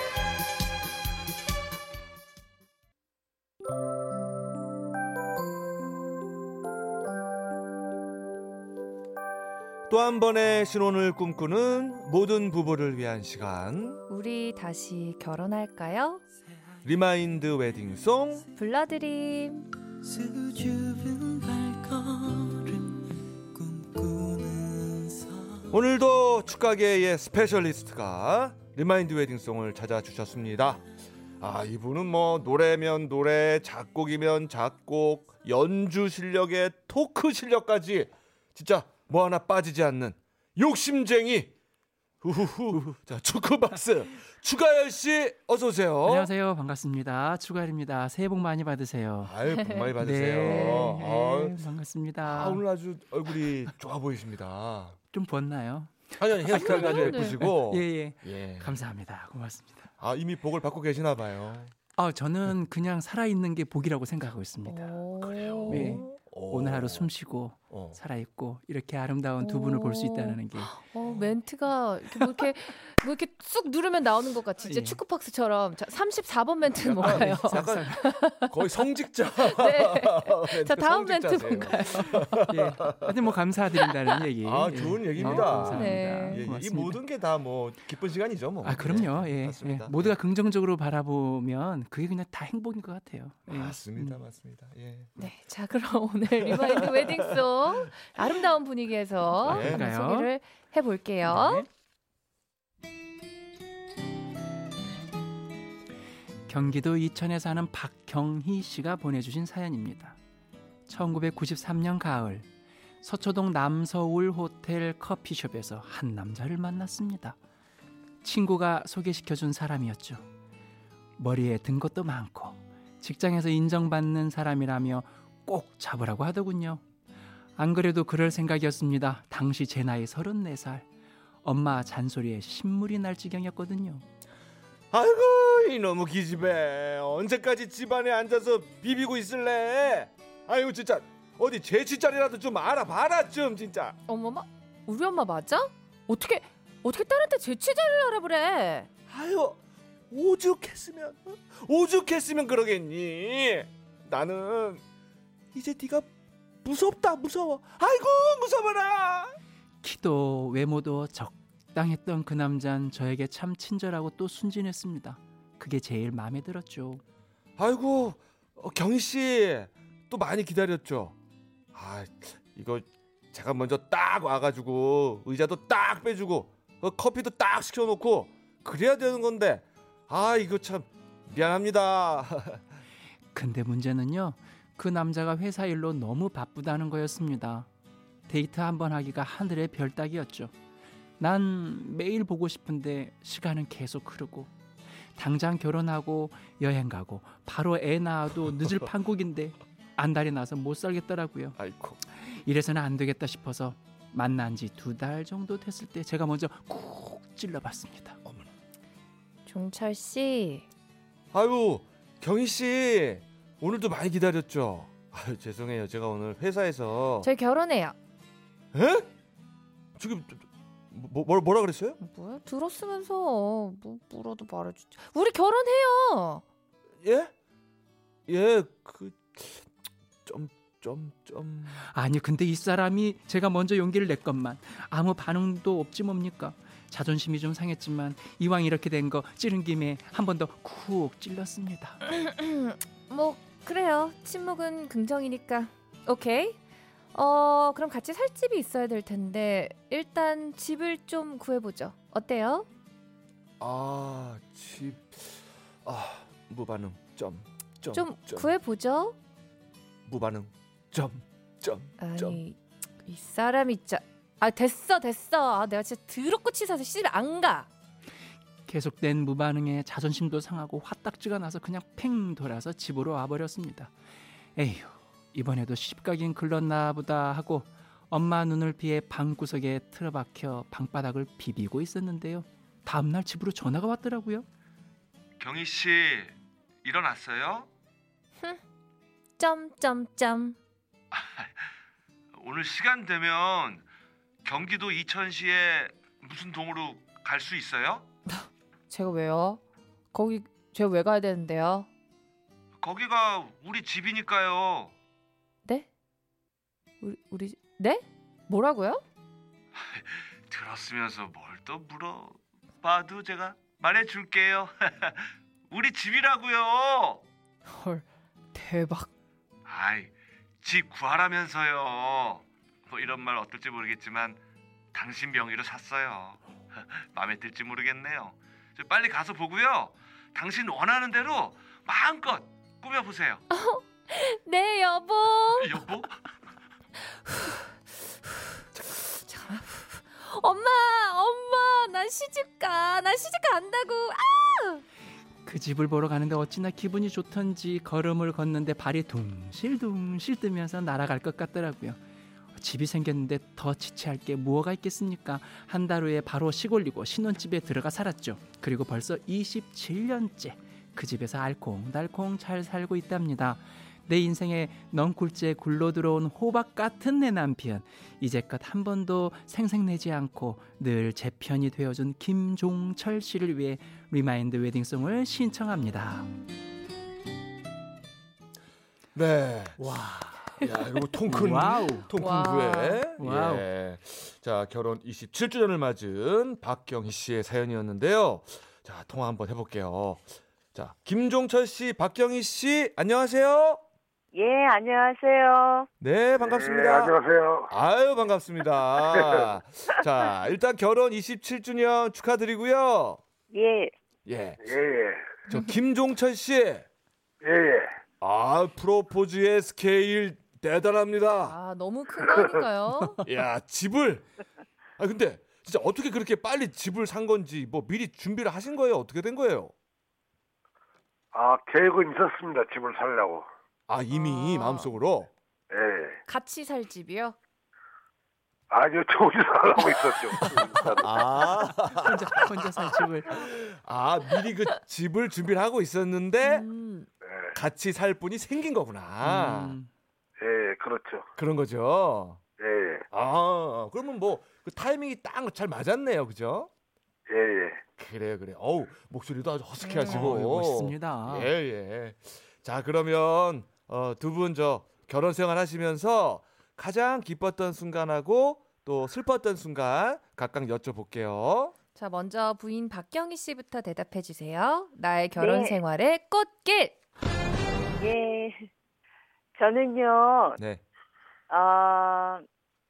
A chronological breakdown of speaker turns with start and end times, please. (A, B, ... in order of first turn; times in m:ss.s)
0:09.9-0:14.0 A
0:14.1-0:16.2 B
0:16.8-0:18.4 A
0:18.5-0:19.7 B
0:20.0-0:25.6 C
0:25.7-0:30.8 A
0:31.4-0:41.5 A
0:42.2-0:46.3 A
0:46.0-0:49.3 C
0:49.2-0:51.6 A
0:49.5-0:49.8 B
0:50.0-0:52.6 C
0:50.5-0:50.9 B
0:52.2-0:55.0 A
0:55.1-0:59.9 C
0:56.2-0:58.8 A
0:56.5-0:57.4 B
1:00.0-1:01.7 A
1:02.0-1:04.9 C
1:04.6-1:06.0 B
1:05.2-1:07.1 A
1:05.7-1:10.7 C
1:07.7-1:08.0 A
1:09.4-1:18.6 B
1:14.6-1:15.0 C
1:16.8-1:23.2 A
1:17.0-1:18.1 C
1:19.4-1:22.5 B
1:22.4-1:27.0 C
1:24.4-1:30.1 A
1:25.2-1:26.4 B
1:28.6-1:34.2 C
1:33.5-1:35.1 A
1:35.2-1:41.6 B
1:36.4-1:37.7 A
1:39.4-1:39.8 A
1:39.4-1:40.3 C
1:41.2-1:41.7 C
1:46.5-1:50.2 C
1:50.9-1:52.5 C
1:53.0-1:57.4 C
1:58.2-2:00.2 C
2:01.2-2:06.8 C
2:07.6-2:10.8 C
2:11.4-2:14.0 C
2:14.9-2:24.0 A
2:24.1-2:28.9 B
2:29.1-2:29.6 A
2:30.1-2:34.8 A
2:35.5-2:36.1 A
2:36.6-2:39.4 A
2:39.8-2:47.0 C
2:47.6-2:51.1 A
2:51.7-3:02.6 A
3:03.3-3:07.7 C
3:08.3-3:10.5 C
3:11.2-3:14.5 C
3:15.2-3:21.6 C
3:21.6-3:22.0 A
3:22.2-3:28.2 C
3:29.4-3:30.6 B
3:31.3-3:37.3 A
3:37.2-3:37.9 B
3:38.7-3:39.1 A
3:40.0-3:42.0 A
3:42.0-3:46.4 B
3:47.0-3:47.3 A
3:48.3-3:49.7 A
3:50.2-3:51.8 A
3:51.8-4:02.0 C
4:02.0-4:06.6 B
4:07.1-4:12.7 B
4:13.6-4:18.5 A
4:17.9-4:19.2 B
4:20.0-4:22.4 A
4:22.0-4:27.7 B
4:28.7-4:33.9 C
4:34.6-4:44.4 C
4:45.4-4:47.7 A
4:49.4-4:50.6 B
4:51.1-4:51.5 A
4:52.3-4:53.8 A
4:54.4-4:58.1 A
4:58.3-4:59.6 B
5:00.1-5:01.9 B
5:02.8-5:04.9 A
5:07.0-5:09.0 B
5:09.7-5:17.2 A
5:17.7-5:19.1 B
5:19.6-5:24.4 A
5:24.9-5:33.4 A
5:33.5-5:35.8 B
5:35.5-5:36.2 A
5:39.0-5:44.8 B
5:45.4-5:52.0 C
5:52.6-6:16.3 C
6:19.1-6:19.8 A
6:19.8-6:20.6 C
6:20.6-6:33.8 A
6:21.3-6:22.1 C
6:22.1-6:23.0 B
6:23.2-6:23.6 C
6:34.3-6:35.9 D
6:36.0-6:37.1 A
6:36.4-6:37.7 E
6:37.7-6:43.2 A
6:39.1-6:39.5 E
6:43.5-6:43.9 D
6:44.2-6:44.6 A
6:44.6-6:45.3 E
6:45.5-6:46.8 A
6:47.4-6:48.0 E
6:48.2-6:51.6 A
6:51.4-6:53.2 B
6:52.2-6:52.6 E
6:53.2-6:54.3 A
6:55.0-6:59.7 A
7:01.3-7:03.4 E
7:03.9-7:05.3 A
7:04.1-7:04.9 B
7:05.7-7:06.2 E
7:06.3-7:07.4 B
7:08.7-7:11.2 E
7:11.0-7:16.6 A
7:11.9-7:13.5 C
7:16.4-7:17.1 B
7:17.2-7:17.6 E
7:17.5-7:19.8 A
7:19.2-7:19.9 C
7:20.4-7:21.3 E
7:21.4-7:22.4 A
7:22.6-7:23.0 E
7:23.1-7:26.7 A
7:27.3-7:27.8 E
7:28.0-7:41.7 A
7:29.8-7:30.3 B
7:30.0-7:31.5 C
7:41.9-7:47.0 B
7:45.4-7:45.8 D
7:48.0-7:48.7 D
7:49.6-7:50.6 D
7:50.6-7:50.8 A
7:51.5-7:52.4 D